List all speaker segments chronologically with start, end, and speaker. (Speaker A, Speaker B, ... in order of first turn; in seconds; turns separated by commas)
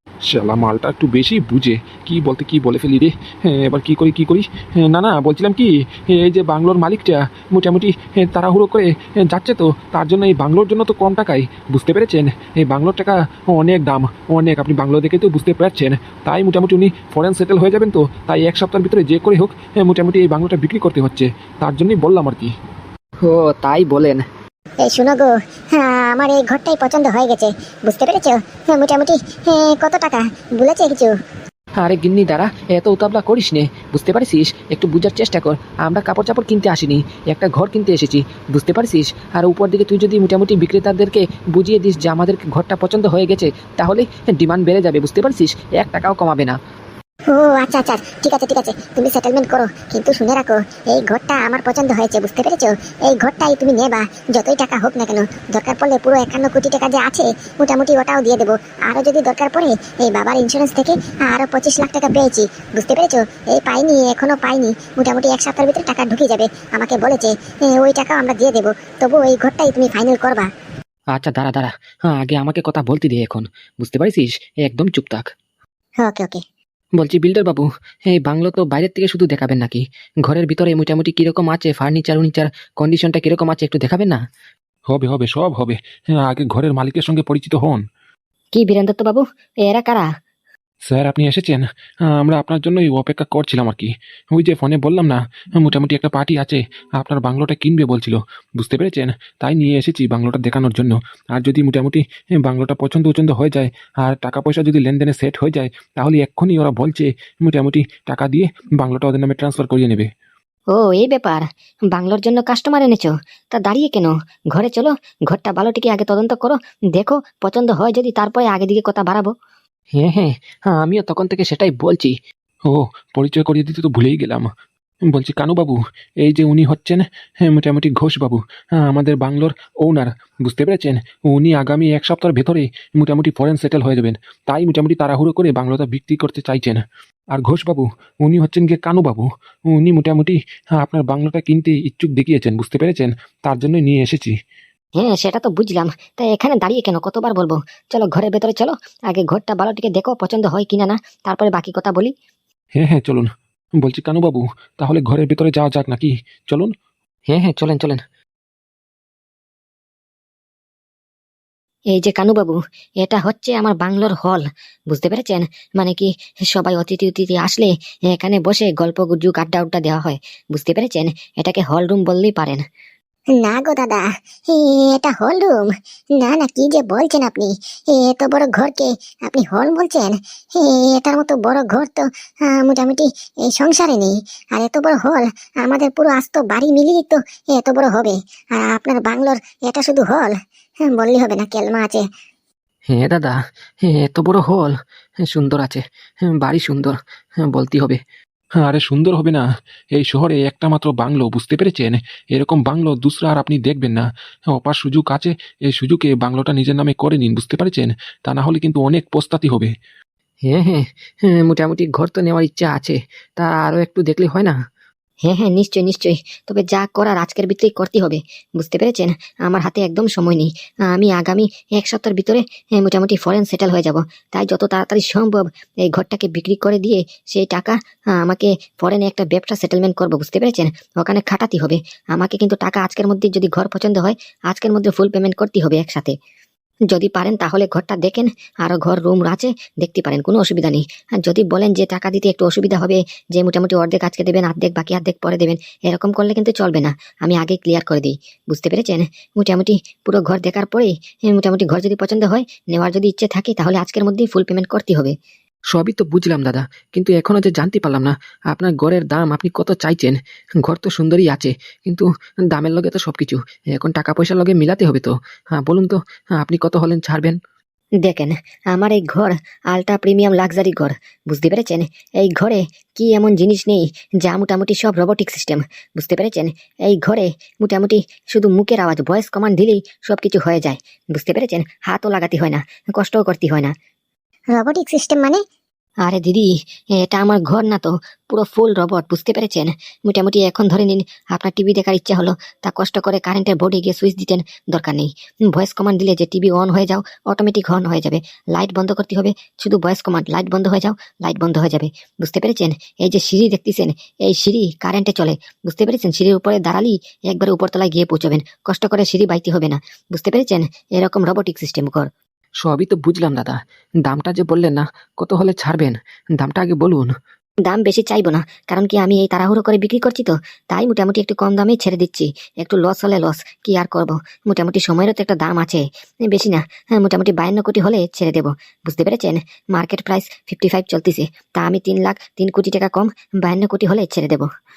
Speaker A: 0.3-22.5, Speaker B: 23.2-24.2, Speaker C: 24.8-31.1, Speaker B: 31.8-46.6, Speaker C: 47.3-70.5, Speaker B: 71.1-75.3, Speaker C: 76.0-76.4, Speaker B: 77.0-84.2, Speaker A: 84.9-87.8, Speaker D: 88.5-90.1, Speaker A: 90.9-110.1, Speaker D: 110.7-119.3, Speaker B: 119.9-122.1, Speaker A: 122.7-124.5, Speaker A: 125.1-136.8, Speaker A: 137.3-144.3, Speaker D: 145.0-152.1, Speaker A: 152.8-153.3, Speaker A: 153.8-156.7, Speaker B: 157.3-158.0, Speaker D: 161.9-172.6, Speaker C: 173.3-192.0, Speaker B: 192.9-198.0, Speaker A: 198.6-209.7, Speaker B: 210.4-214.6, Speaker D: 215.2-236.1, Speaker D: 236.9-255.1, Speaker B: 255.7-267.4, Speaker D: 268.0-283.7, Speaker C: 284.5-285.4, Speaker D: 286.0-312.1, Speaker B: 312.6-317.1, Speaker D: 317.6-334.5